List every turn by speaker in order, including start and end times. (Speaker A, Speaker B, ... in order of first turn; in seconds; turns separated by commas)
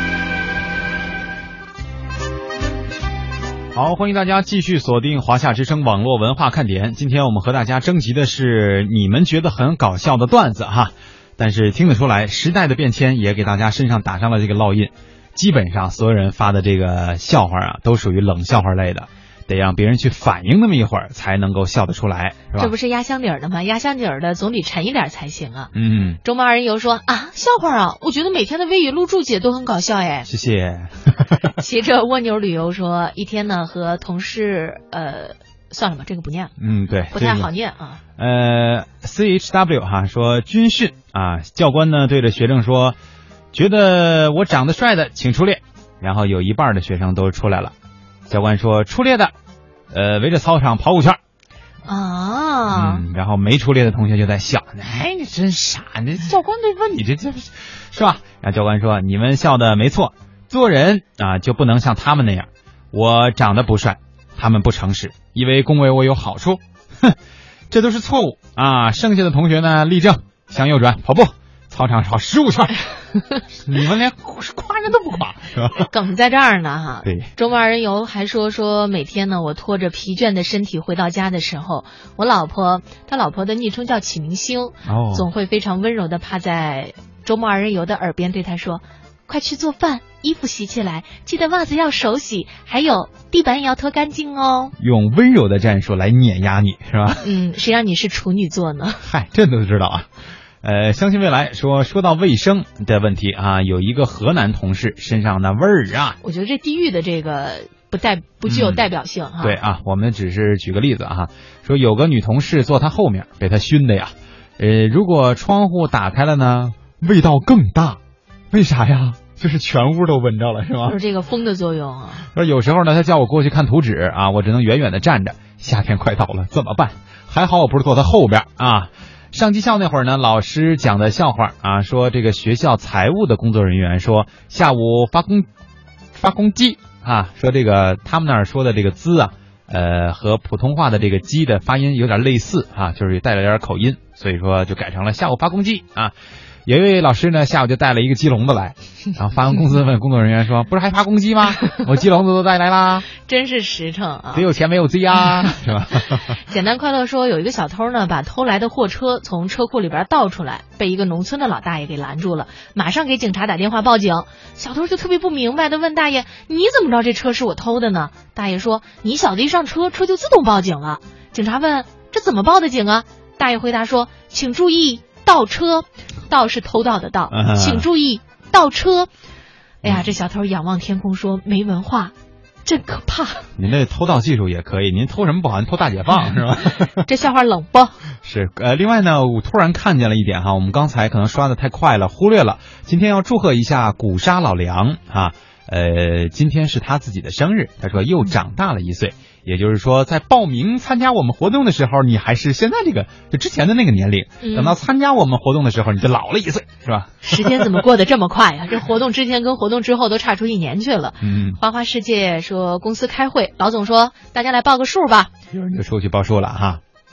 Speaker A: 3.7-22.7, Speaker B: 22.6-25.7, Speaker A: 25.7-26.2, Speaker B: 26.2-30.3, Speaker A: 30.2-31.5, Speaker B: 31.6-36.5, Speaker A: 36.6-37.5, Speaker B: 37.1-38.0, Speaker A: 38.2-43.0, Speaker A: 43.5-47.7, Speaker A: 48.3-49.3, Speaker A: 49.9-51.2, Speaker B: 51.9-53.0, Speaker A: 52.7-67.2, Speaker A: 67.7-72.8, Speaker A: 73.6-75.9, Speaker B: 75.8-94.7, Speaker A: 77.0-77.3, Speaker A: 84.8-85.3, Speaker A: 94.8-97.2, Speaker B: 97.2-99.0, Speaker A: 99.0-100.1, Speaker A: 100.6-106.2, Speaker B: 106.2-109.6, Speaker A: 108.5-108.9, Speaker A: 109.4-118.0, Speaker A: 118.5-121.0, Speaker B: 120.8-122.2, Speaker A: 122.3-135.5, Speaker A: 136.1-146.1, Speaker A: 146.7-153.1, Speaker B: 153.2-154.5, Speaker A: 154.3-156.2, Speaker B: 156.4-179.1, Speaker A: 177.3-177.9, Speaker B: 179.8-182.1, Speaker A: 179.8-180.1, Speaker B: 182.6-183.4, Speaker A: 183.6-187.0, Speaker B: 187.0-188.0, Speaker A: 188.2-207.6, Speaker B: 204.4-204.8, Speaker B: 207.2-215.3, Speaker A: 211.2-211.6, Speaker A: 215.5-216.8